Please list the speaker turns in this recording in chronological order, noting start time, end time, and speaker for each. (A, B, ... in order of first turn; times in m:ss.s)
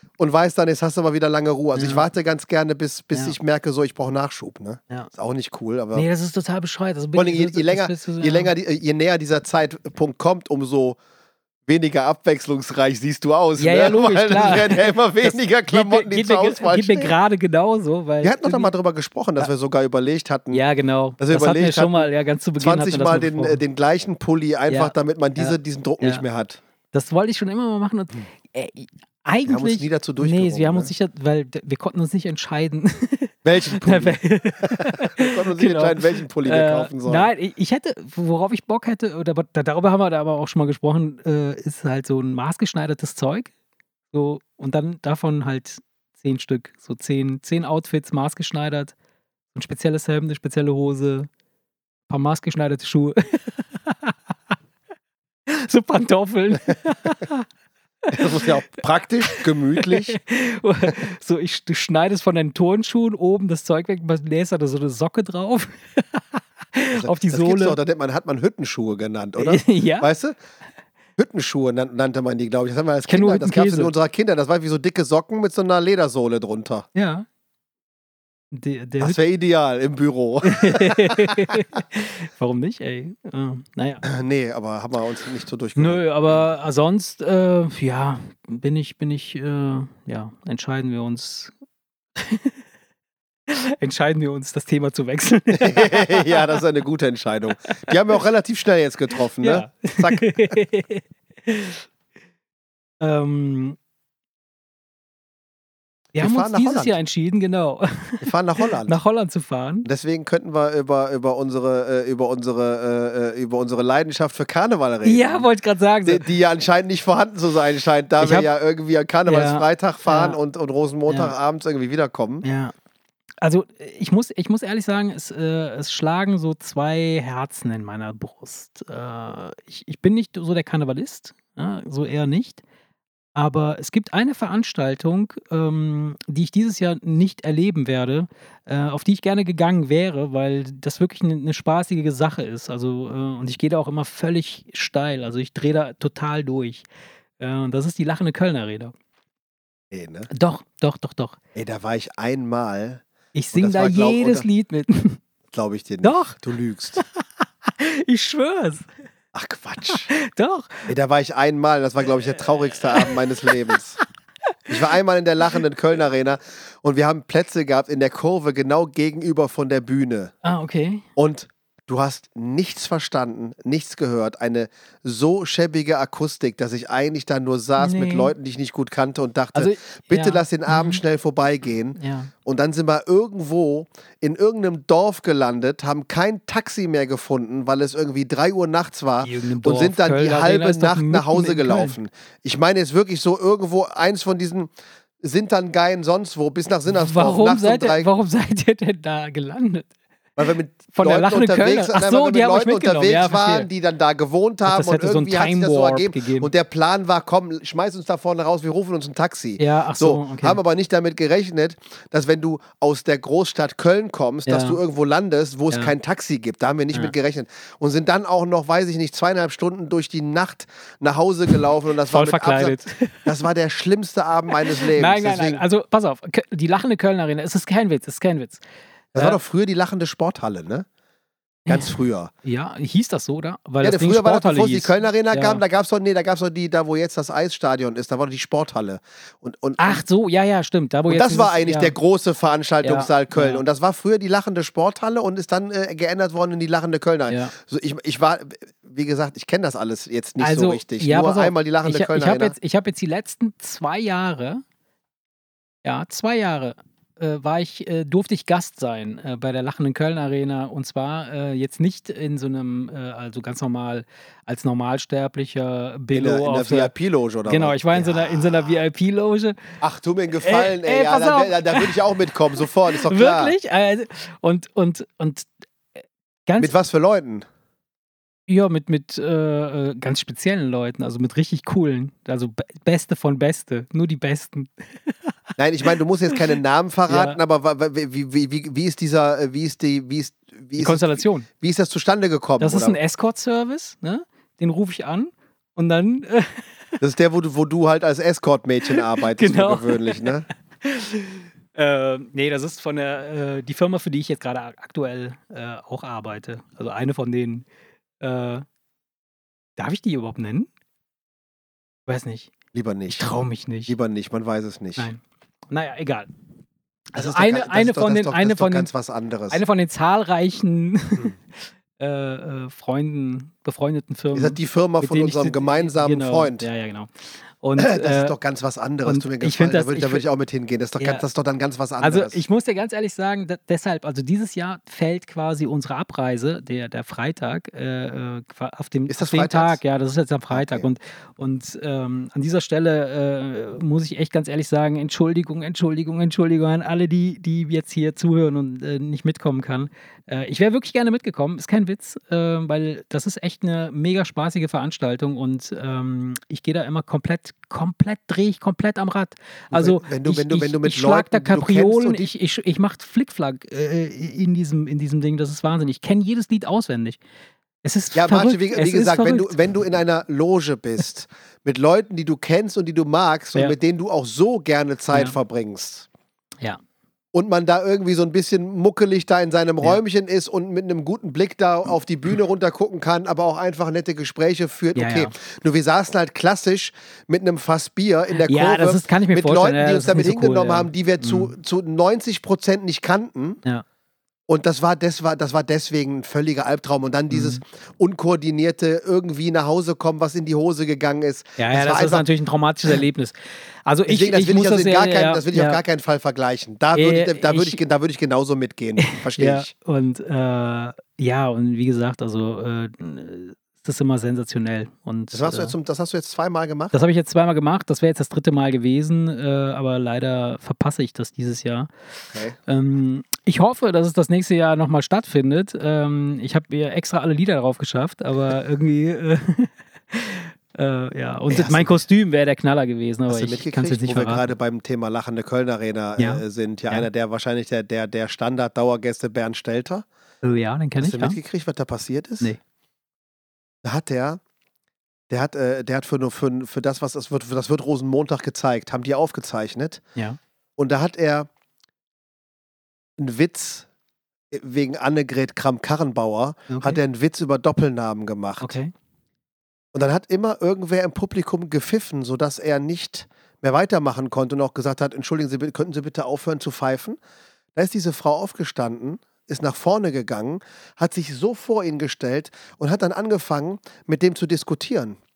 0:00.2-0:06.1 A
0:01.8-0:02.1 B
0:05.9-0:08.5 B
0:07.1-0:11.0 A
0:11.7-0:17.1 A
0:13.6-0:18.7 B
0:18.2-0:20.6 A
0:20.5-0:23.6 B
0:21.2-0:26.6 A
0:24.7-0:26.2 B
0:26.9-0:43.5 B
0:29.5-0:30.9 A
0:33.4-0:37.3 A
0:44.1-0:48.9 B
0:49.5-0:51.3 B
0:52.1-0:54.2 B
0:55.5-0:57.5 B
0:58.1-0:58.5 B
0:58.1-1:00.2 A
0:59.3-1:07.8 B
1:06.9-1:10.4 A
1:09.4-1:10.1 B
1:11.2-1:16.9 A
1:13.1-1:13.9 B
1:17.0-1:17.3 B
1:18.5-1:19.2 B
1:19.0-1:21.6 A
1:20.5-1:24.0 B
1:24.0-1:26.4 A
1:25.8-1:31.5 B
1:32.2-1:32.6 B
1:33.5-1:36.6 B
1:35.5-1:40.6 A
1:39.4-1:41.9 B
1:43.0-1:43.8 B
1:46.2-1:49.9 B
1:46.2-1:47.0 A
1:48.2-1:49.0 A
1:49.8-1:55.5 A
1:55.0-1:56.3 B
1:56.0-2:02.4 A
1:58.2-1:58.5 B
1:59.3-2:00.4 B
2:01.1-2:01.3 B
2:02.4-2:02.7 B
2:03.4-2:12.6 B
2:13.4-2:26.9 B
2:27.4-2:28.9 B
2:29.9-2:30.3 A
2:30.3-2:31.4 B
2:31.6-2:34.5 A
2:33.3-2:35.2 B
2:35.5-2:37.0 A
2:36.0-2:36.4 B
2:37.0-2:38.9 B
2:39.3-2:40.1 A
2:39.9-2:40.9 B
2:40.9-2:44.0 A
2:42.3-2:43.8 B
2:44.7-2:50.3 A
2:50.4-2:51.0 B
2:51.2-3:18.1 A
2:57.8-2:58.3 B
2:59.6-3:01.0 B
3:02.0-3:02.3 B
3:09.2-3:12.0 B
3:16.9-3:19.9 B
3:20.4-3:45.6 A
3:20.9-3:23.7 B
3:24.7-3:26.5 B
3:29.6-3:30.6 B
3:34.5-3:34.8 B
3:42.0-3:43.3 B
3:44.7-3:48.6 B
3:49.1-3:50.9 A
3:51.7-3:52.3 A
3:51.7-3:55.6 B
3:53.8-4:00.0 A
3:59.8-4:02.0 B
4:01.1-4:12.6 A
4:02.8-4:03.6 B
4:07.3-4:07.5 B
4:10.4-4:14.6 B
4:15.8-4:26.9 B
4:26.1-4:28.7 A
4:27.5-4:29.6 B
4:29.8-4:33.5 A
4:30.4-4:32.0 B
4:32.6-4:35.5 B
4:36.5-4:36.7 B
4:36.6-4:37.4 A
4:38.5-4:45.3 B
4:45.6-4:53.0 A
4:47.1-4:47.4 B
4:50.8-4:51.5 B
4:52.6-4:56.7 B
4:57.0-5:00.5 A
4:58.9-5:07.7 B
5:08.2-5:08.6 B
5:09.8-5:10.7 B
5:12.1-5:12.5 B
5:12.7-5:15.1 A
5:13.1-5:13.9 B
5:15.0-5:16.3 B
5:17.1-5:18.9 B
5:17.2-5:19.6 A
5:19.5-5:28.4 B
5:24.3-5:26.7 A
5:27.8-5:32.4 A
5:29.0-5:30.2 B
5:31.0-5:31.2 B
5:32.0-6:07.2 B
5:39.1-5:39.8 A
5:40.5-5:40.9 A
5:59.7-6:02.3 A
6:07.8-6:09.6 B
6:08.1-6:16.1 A
6:17.3-6:33.6 A
6:25.0-6:25.3 B
6:28.4-6:31.5 B
6:34.5-6:42.3 A
6:37.3-6:37.6 B
6:41.6-6:45.8 B
6:44.1-6:49.7 A
6:47.0-6:47.8 B
6:49.0-6:55.8 B
6:55.3-6:57.0 A
6:56.9-7:01.9 B
7:02.3-7:02.6 A
7:02.7-7:14.5 B
7:11.5-7:12.0 A
7:13.3-7:20.0 A
7:16.2-7:17.1 B
7:20.4-7:21.4 B
7:21.0-7:22.6 A
7:23.8-7:24.4 A
7:25.3-7:30.0 A
7:30.8-7:31.5 A
7:33.2-7:33.9 A
7:34.5-7:38.8 A
7:36.7-7:37.0 B
7:38.6-7:38.9 B
7:39.9-7:47.2 A
7:47.8-7:55.2 A